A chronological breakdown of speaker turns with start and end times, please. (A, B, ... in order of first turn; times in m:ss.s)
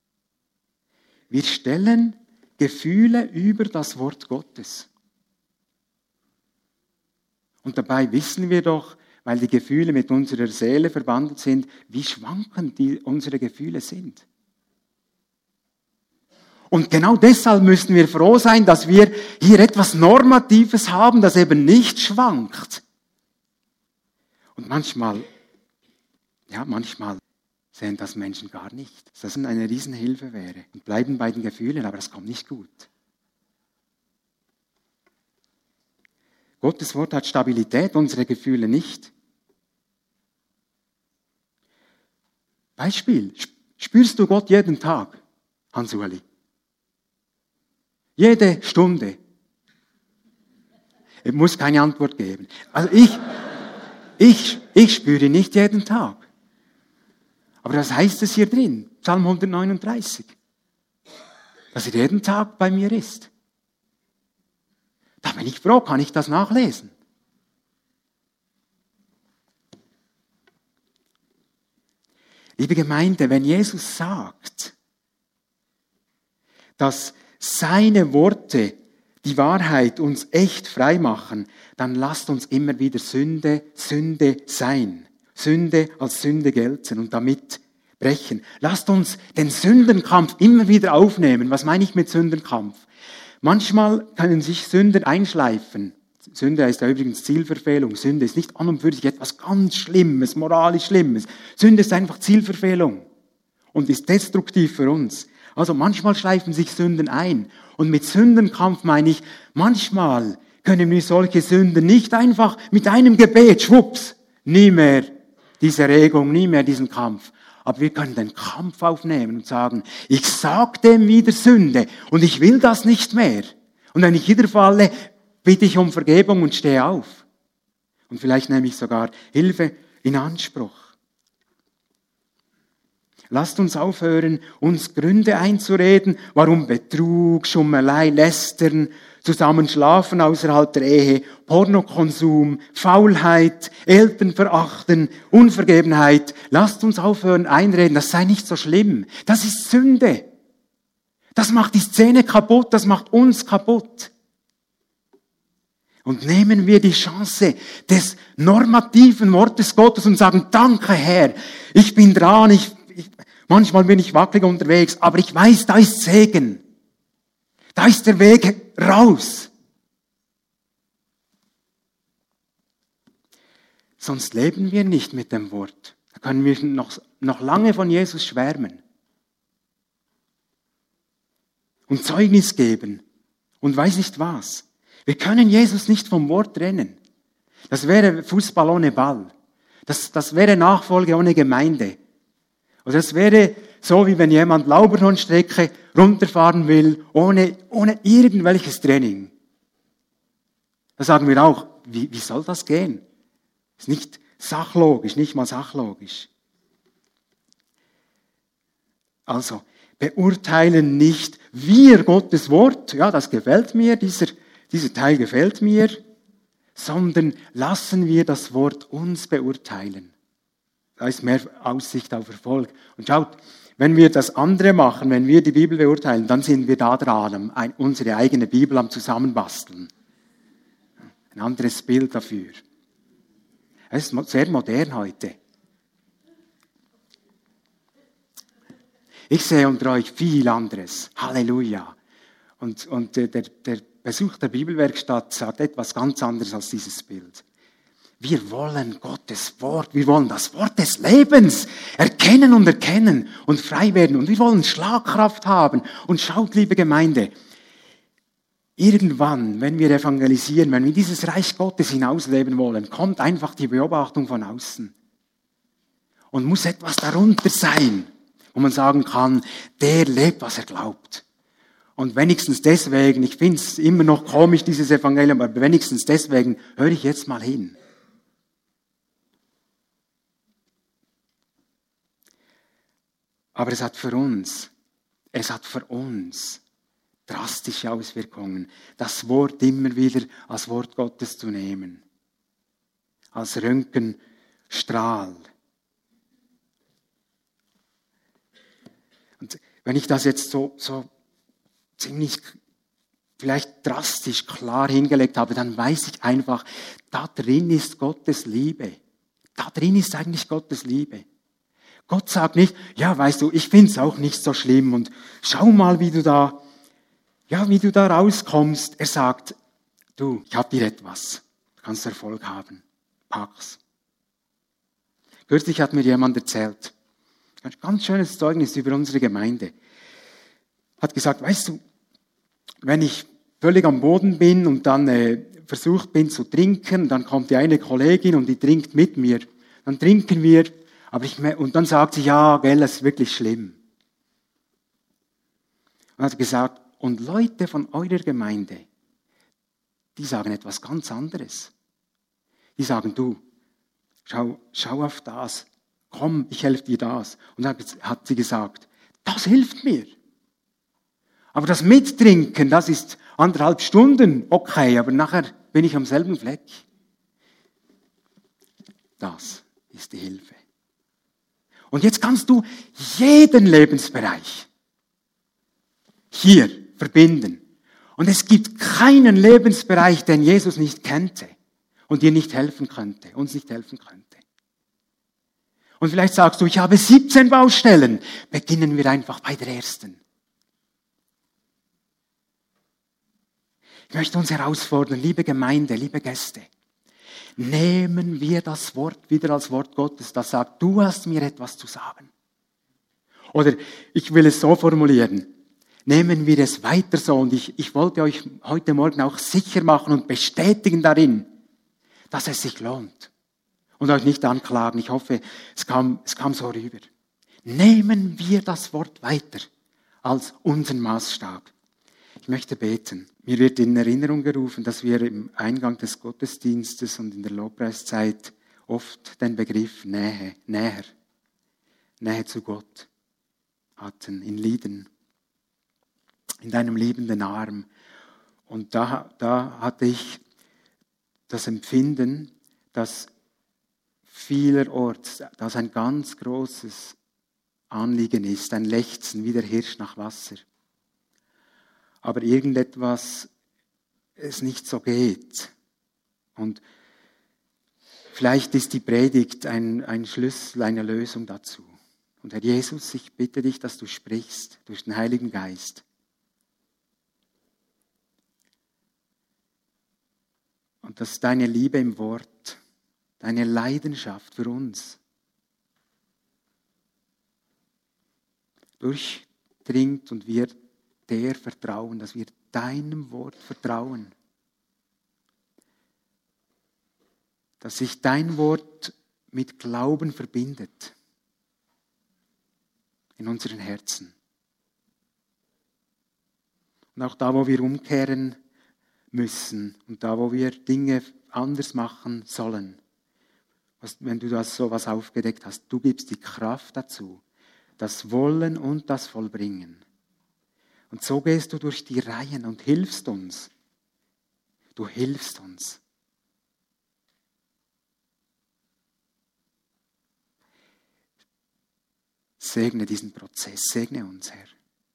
0:01.3-0:04.9 A
0:07.6-0:14.2 A
0:16.7-0:22.8 A
0:24.6-0:25.2 A
0:26.5-0:27.2 A
0:27.7-0:32.9 A
0:36.6-0:39.1 A
0:42.8-0:45.2 A
0:45.7-0:46.2 A
0:48.2-0:49.2 A
0:51.2-0:53.3 A
0:54.2-0:56.3 A
0:57.6-1:00.3 A
1:01.7-1:03.3 A
1:05.2-1:06.9 A
1:12.6-1:14.7 A
1:16.8-1:32.8 A
1:33.4-1:43.0 A
1:43.7-2:07.2 A
2:08.1-2:10.9 A
2:13.3-2:30.3 A
2:31.3-2:34.1 A
2:36.0-2:46.6 A
2:47.7-2:49.5 A
2:54.0-2:58.8 A
3:01.9-3:03.0 A
3:03.6-3:07.0 A
3:07.7-3:09.3 A
3:09.9-3:12.0 A
3:12.8-3:19.3 A
3:21.0-3:23.0 A
3:23.8-3:26.3 A
3:29.3-3:36.0 A
3:36.8-3:40.1 A
3:41.0-3:49.9 A
3:51.3-3:52.6 A
3:53.9-3:55.4 A
3:59.3-4:02.0 A
4:02.6-4:07.4 A
4:08.2-4:17.3 A
4:18.8-4:24.9 A
4:26.3-4:31.2 A
4:32.0-4:37.8 A
4:43.5-4:44.7 A
4:45.3-4:46.6 A
4:47.3-4:52.0 A
4:53.3-4:54.2 A
4:54.7-4:55.5 A
4:59.4-5:01.1 A
5:02.0-5:02.6 A
5:03.4-5:09.0 A
5:09.6-5:11.2 A
5:12.1-5:16.6 A
5:17.5-5:19.5 A
5:20.2-5:23.8 A
5:25.5-5:26.9 A
5:27.6-5:29.7 A
5:31.0-5:31.8 A
5:32.8-5:43.8 A
5:46.2-5:48.9 A
5:50.2-5:51.7 A
5:52.8-5:53.4 A
5:54.2-6:00.1 A
6:01.5-6:06.8 A
6:09.2-6:10.6 A
6:11.9-6:14.7 A
6:16.3-6:17.6 A
6:18.2-6:21.5 A
6:22.1-6:24.4 A
6:26.0-6:30.2 A
6:34.1-6:36.7 A
6:37.6-6:42.3 A
6:43.5-6:45.5 A
6:46.0-6:51.5 A
6:52.3-6:53.3 A
6:54.0-6:57.1 A
6:57.6-6:59.7 A
7:00.2-7:01.7 A
7:02.4-7:11.1 A
7:12.2-7:13.1 A
7:14.0-7:15.1 A
7:16.6-7:17.9 A
7:18.7-7:20.4 A
7:21.5-7:23.3 A
7:24.3-7:27.2 A
7:27.9-7:30.6 A
7:32.2-7:33.5 A
7:34.4-7:35.7 A
7:36.6-7:36.8 A
7:38.3-7:46.0 A
7:51.0-7:52.8 A
7:53.4-7:55.2 A
7:59.0-8:00.7 A
8:01.3-8:04.3 A
8:07.8-8:11.1 A
8:13.4-8:14.3 A
8:17.1-8:18.6 A
8:19.3-8:23.0 A
8:24.0-8:27.4 A
8:28.0-8:30.0 A
8:31.1-8:33.7 A
8:35.0-8:36.0 A
8:42.6-8:44.7 A